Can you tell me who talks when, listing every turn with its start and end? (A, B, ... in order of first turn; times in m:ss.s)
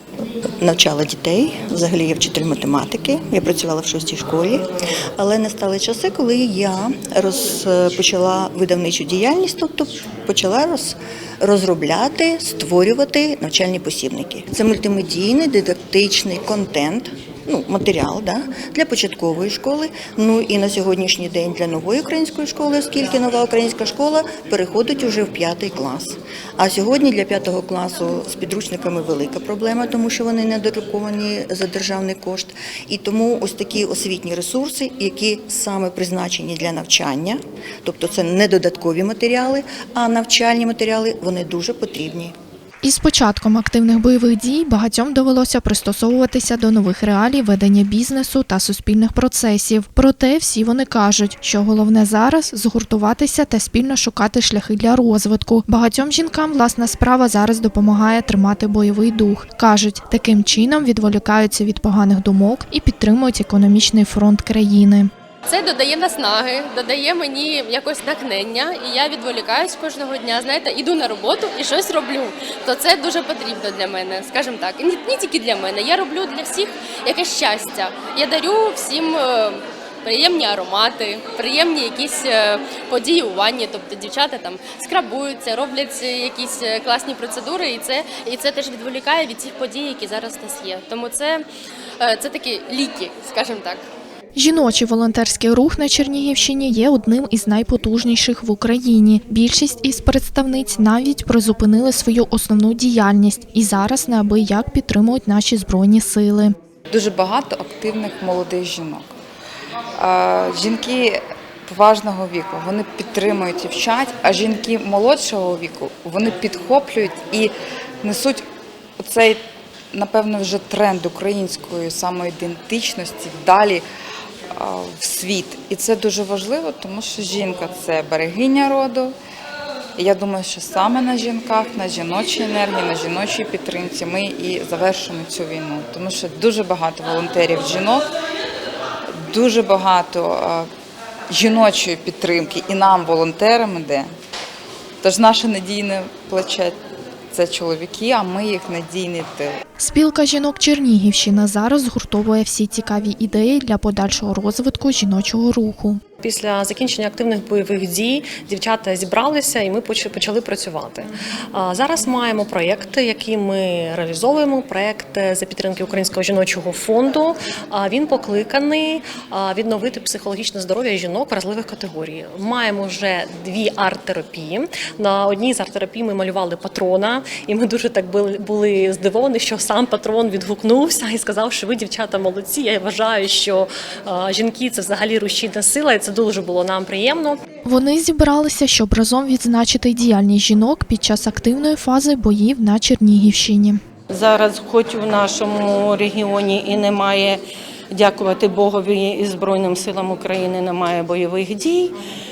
0:00.6-0:04.7 A
0:05.2-0:42.3 A
0:42.8-1:05.1 B
1:05.5-1:31.4 C
1:32.0-1:33.8 C
1:34.3-1:46.6 B
1:46.9-1:49.1 D
1:50.0-1:58.4 D
1:59.0-2:03.8 D
2:04.5-2:09.1 D
2:10.0-2:18.1 D
2:19.2-2:20.7 D
2:21.3-2:24.1 D
2:25.0-2:26.8 D
2:27.3-2:29.6 D
2:29.8-2:36.0 B
2:36.2-3:07.4 E
3:07.6-3:13.8 B
3:14.1-3:17.4 F
3:17.9-3:21.9 F